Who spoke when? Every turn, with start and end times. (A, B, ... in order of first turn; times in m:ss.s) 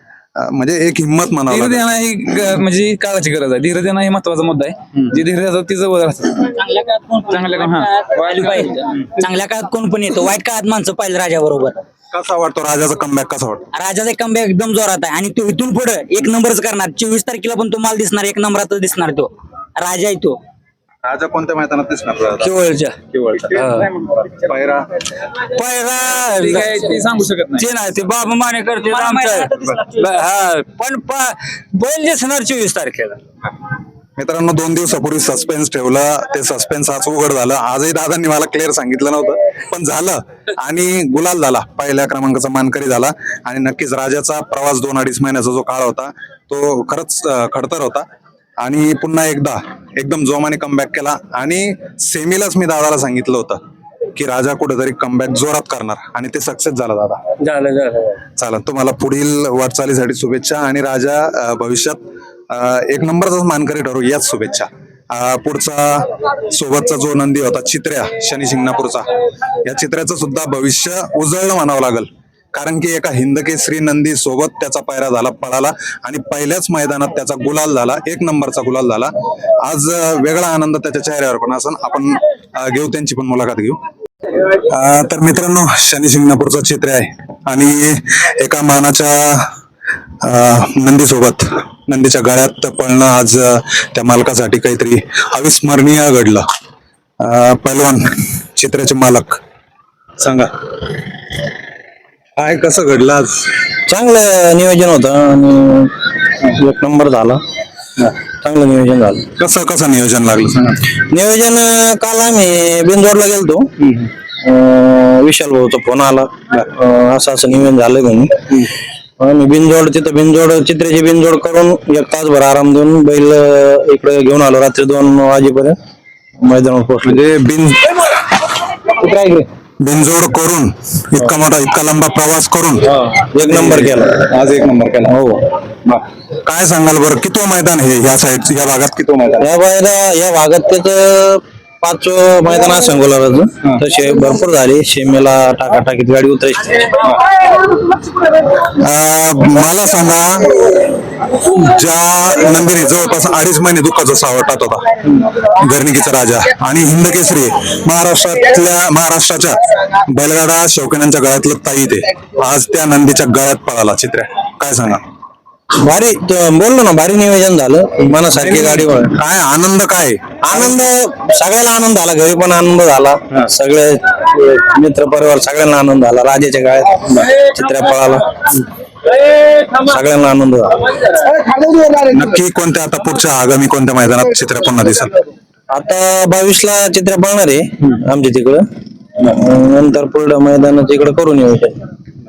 0:00.4-0:01.8 A
0:01.5-0:06.5 B
0:06.6-0:11.8 C
0:07.3-0:09.0 B
0:12.1-0:13.6 A
0:13.7-0:20.4 C
0:21.0-0:22.5 A
0:22.4-0:23.0 D
0:23.1-0:23.7 A
0:23.5-0:23.9 D
0:24.4-0:25.0 A
0:25.2-0:27.0 D
0:26.3-0:27.7 B
0:27.6-0:33.2 D
0:34.2-0:48.0 A
0:48.6-0:53.6 A
0:54.1-0:57.2 A
0:57.4-0:58.2 D
0:58.4-1:09.0 A
1:09.6-1:23.8 A
1:24.5-1:29.5 A
1:30.2-1:36.4 A
1:37.2-1:39.4 A
1:40.2-1:40.7 A
1:42.4-1:43.5 A
1:43.9-1:47.4 E
1:48.4-1:49.3 E
1:49.4-1:50.8 A
1:50.9-1:53.7 E
1:53.8-1:54.1 A
1:54.4-1:58.4 E
1:59.2-2:05.8 E
2:06.4-2:07.2 E
2:07.0-2:08.1 A
2:08.8-2:09.5 E
2:09.8-2:15.2 A
2:12.9-2:14.2 E
2:15.1-2:15.4 E
2:15.8-2:19.5 A
2:19.4-2:26.9 E
2:27.0-2:27.4 A
2:28.6-2:45.0 A
2:45.8-2:49.1 E
2:48.2-2:50.8 A
2:50.4-2:58.3 E
2:59.3-3:00.8 E
3:01.8-3:05.2 A
3:05.7-3:08.6 E
3:09.2-3:11.7 E